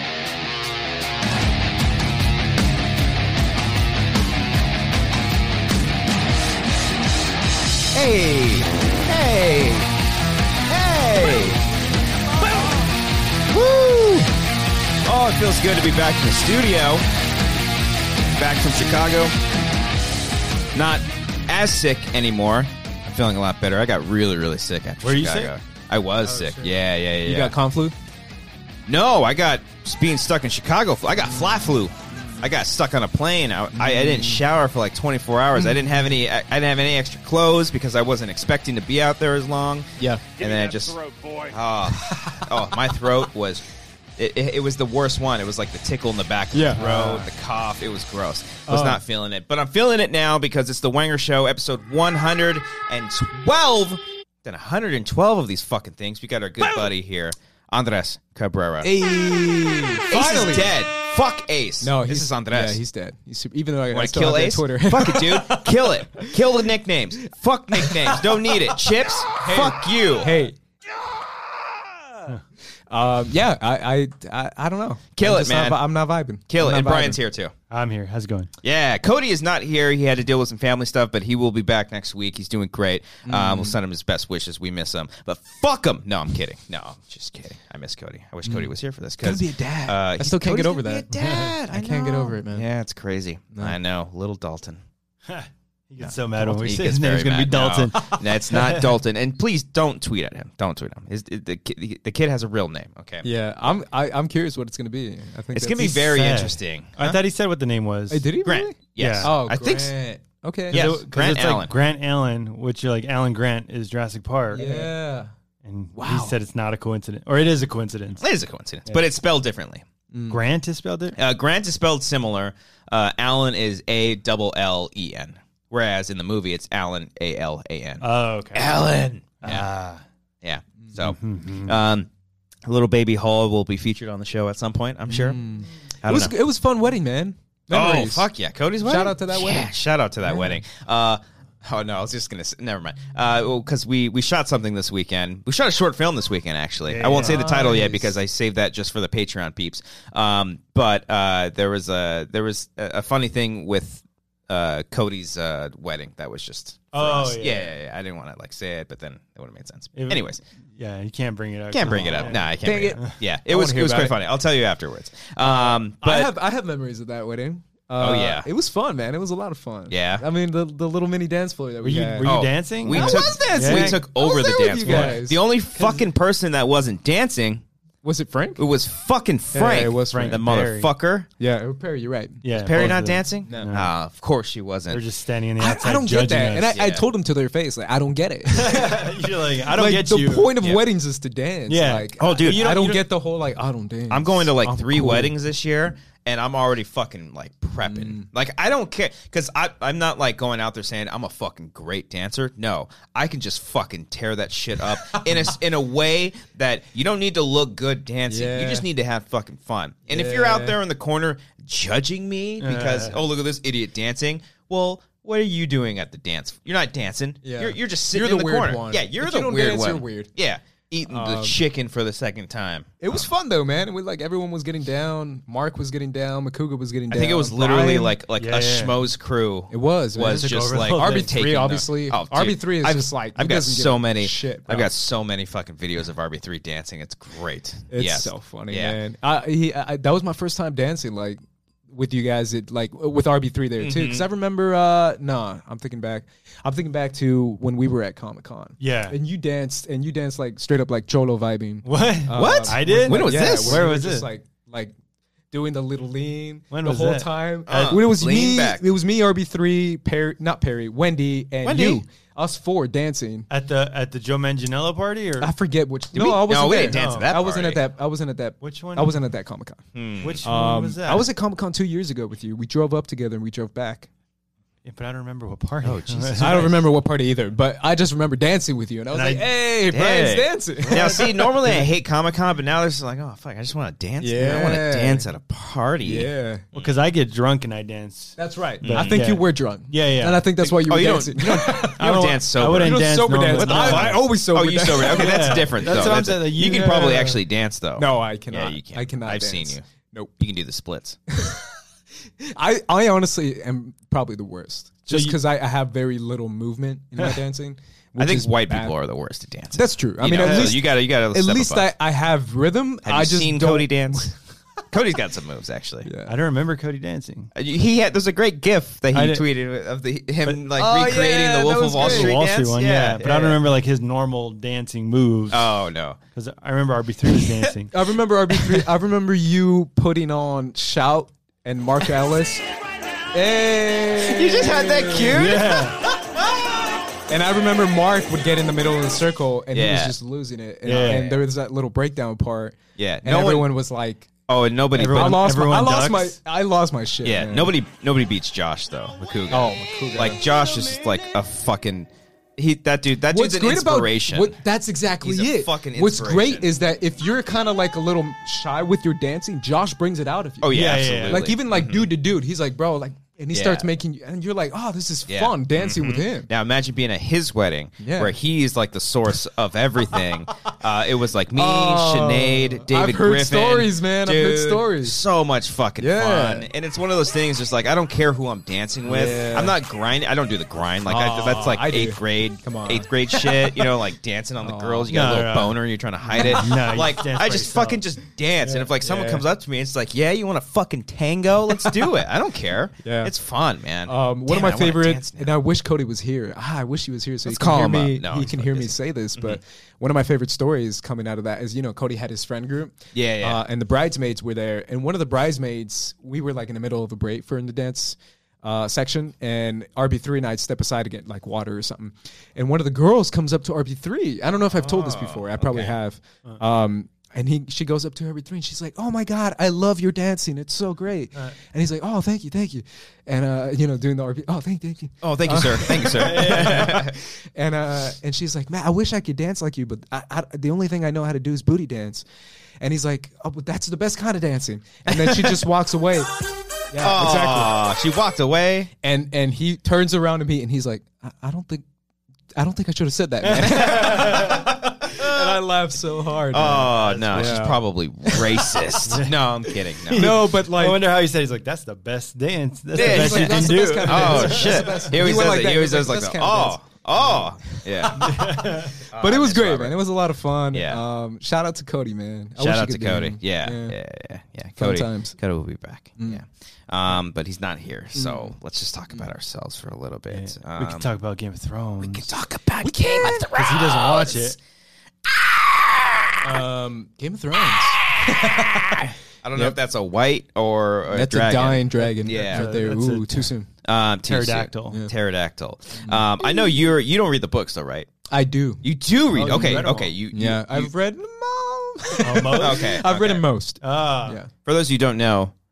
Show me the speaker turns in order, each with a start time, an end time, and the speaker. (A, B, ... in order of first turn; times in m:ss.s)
0:07.9-0:09.9 A
0:10.7-0:11.6 A
0:13.5-0:14.3 A
0:15.0-0:17.0 A
0:18.3-0:19.4 A
0:20.7-0:27.6 A
0:25.0-0:25.5 B
0:26.2-0:28.0 C
0:28.9-0:43.6 A
0:32.1-0:32.5 C
0:33.8-0:34.4 C
0:40.0-0:40.2 C
0:41.9-0:42.5 C
0:44.2-0:58.9 A
0:46.5-0:47.3 C
0:48.7-0:49.0 C
0:58.8-1:00.7 C
1:00.1-1:02.8 A
1:01.8-1:06.4 C
1:03.9-1:10.4 A
1:07.7-1:08.8 C
1:09.4-1:10.6 C
1:12.9-1:17.2 C
1:15.2-1:15.8 A
1:16.5-1:17.5 A
1:17.7-1:18.5 B
1:18.6-1:34.8 A
1:23.2-1:23.8 C
1:29.2-1:32.6 C
1:31.1-1:31.5 B
1:35.3-1:38.9 B
1:36.0-1:43.3 A
1:43.2-1:46.1 C
1:45.5-1:47.2 A
1:45.9-1:48.3 B
1:48.1-1:50.8 C
1:48.4-1:49.9 A
1:49.0-1:49.3 B
1:50.7-1:51.7 A
1:50.7-1:54.9 B
1:54.5-1:55.3 C
1:55.6-1:58.2 B
1:56.0-1:56.4 C
1:58.2-1:59.8 A
2:00.1-2:00.4 C
2:00.3-2:01.2 B
2:01.2-2:09.7 A
2:08.0-2:08.8 B
2:09.4-2:10.0 B
2:10.4-2:12.1 A
2:11.0-2:11.7 B
2:12.6-2:15.4 A
2:15.1-2:18.2 C
2:16.0-2:16.3 A
2:17.7-2:40.4 A
2:18.8-2:19.7 C
2:20.2-2:20.6 C
2:26.9-2:27.5 B
2:27.1-2:28.1 C
2:36.9-2:37.7 B
2:39.9-2:43.1 B
2:41.7-2:46.3 A
2:42.1-2:44.1 C
2:45.4-2:55.4 C
2:48.0-2:48.5 A
2:49.9-2:50.2 A
2:51.8-2:54.0 B
2:52.2-2:57.6 A
2:54.8-2:56.1 B
2:58.0-2:58.6 C
2:58.6-3:01.3 A
2:59.5-3:00.5 C
3:00.1-3:00.9 B
3:01.4-3:02.9 C
3:02.4-3:03.9 B
3:02.5-3:05.0 A
3:03.4-3:03.7 C
3:04.9-3:06.7 B
3:05.6-3:15.3 C
3:06.7-3:07.0 A
3:08.5-3:10.5 B
3:11.7-3:13.1 B
3:12.2-3:12.6 A
3:14.1-3:43.3 A
3:17.8-3:18.2 C
3:28.3-3:28.9 C
3:30.1-3:30.8 C
3:32.6-3:33.2 B
3:37.4-3:40.3 C
3:41.1-3:41.6 C
3:43.0-3:48.2 C
3:47.1-3:59.0 A
3:48.4-3:49.0 B
3:49.7-3:54.9 C
3:50.2-3:51.3 B
3:57.9-4:14.9 C
4:03.8-4:04.2 A
4:08.8-4:09.2 B
4:11.8-4:14.3 B
4:12.3-4:13.8 A
4:15.5-4:23.5 C
4:16.7-4:18.0 B
4:17.7-4:18.9 A
4:21.6-4:22.0 A
4:23.5-4:25.5 B
4:25.4-4:29.8 C
4:26.1-4:27.8 A
4:26.8-4:27.3 B
4:28.6-4:29.2 B
4:29.9-4:30.4 A
4:30.2-4:31.3 B
4:30.4-4:34.1 C
4:34.8-4:36.8 B
4:35.8-4:36.8 A
4:36.4-4:41.9 C
4:39.1-4:39.5 B
4:39.9-4:47.0 A
4:40.9-4:41.2 B
4:44.2-4:45.3 C
4:46.0-4:46.6 C
4:46.7-4:50.4 B
4:48.4-4:52.1 C
4:48.8-4:49.4 A
4:50.6-4:59.8 A
4:51.8-4:54.2 B
4:52.7-4:56.1 C
4:54.9-4:57.4 B
4:58.0-5:00.3 C
5:00.4-5:01.2 A
5:01.3-5:01.7 C
5:02.4-5:08.9 C
5:05.1-5:05.4 B
5:08.2-5:11.9 A
5:09.7-5:14.3 C
5:10.3-5:10.8 B
5:13.0-5:14.3 A
5:14.9-5:16.1 A
5:16.0-5:16.4 C
5:16.3-5:17.5 B
5:17.5-5:23.6 A
5:19.1-5:19.4 B
5:20.7-5:22.4 C
5:21.9-5:25.7 B
5:23.2-5:23.5 C
5:25.5-5:26.2 A
5:26.3-5:28.1 B
5:27.9-5:32.6 C
5:33.3-5:35.6 C
5:34.2-5:36.8 A
5:35.3-5:36.0 B
5:37.3-5:44.3 C
5:39.7-5:40.2 A
5:40.8-5:41.4 B
5:43.0-5:43.7 A
5:44.5-5:45.4 A
5:44.9-5:46.4 B
5:45.1-5:47.7 C
5:47.2-5:54.6 A
5:49.5-5:50.4 C
5:53.3-6:06.5 C
5:55.2-5:56.7 A
6:00.6-6:02.1 A
6:00.7-6:01.5 B
6:03.5-6:03.9 A
6:05.3-6:35.5 A
6:08.0-6:08.3 C
6:11.5-6:15.2 C
6:16.0-6:16.7 C
6:19.0-6:19.8 C
6:21.0-6:23.9 C
6:24.6-6:25.1 C
6:25.1-6:25.8 B
6:26.3-6:28.0 B
6:26.3-6:26.7 C
6:28.6-6:28.9 B
6:29.0-6:29.4 C
6:33.0-6:33.3 C
6:34.1-7:12.2 C
6:37.4-6:39.6 A
6:43.1-6:43.6 A
6:54.7-6:56.0 A
7:05.2-7:07.2 A
7:06.0-7:07.0 B
7:12.8-7:16.3 C
7:15.1-7:15.6 A
7:16.9-7:17.8 C
7:17.0-7:18.9 A
7:19.0-7:21.8 C
7:22.6-7:29.0 C
7:23.4-7:24.7 B
7:23.5-7:25.6 A
7:26.5-7:30.4 A
7:26.9-7:27.6 B
7:29.0-7:35.3 B
7:30.1-7:31.0 C
7:32.9-7:43.9 C
7:32.9-7:38.5 A
7:38.2-7:39.0 B
7:39.1-7:40.0 A
7:40.7-7:41.0 A
7:42.6-7:51.1 A
7:44.8-7:45.3 C
7:48.1-7:48.5 C
7:50.3-7:52.3 B
7:52.0-7:54.5 A
7:52.8-7:53.5 C
7:53.5-7:54.6 B
7:55.3-7:56.6 A
7:56.4-7:59.8 C
7:59.4-8:02.8 A
8:01.1-8:03.7 C
8:02.2-8:03.5 B
8:03.8-8:08.1 A
8:04.3-8:05.0 B
8:06.0-8:06.8 C
8:08.3-8:14.5 C
8:08.8-8:10.9 A
8:09.4-8:10.1 B
8:12.2-8:13.0 B
8:12.5-8:13.4 A
8:13.8-8:14.4 B
8:14.6-8:15.5 A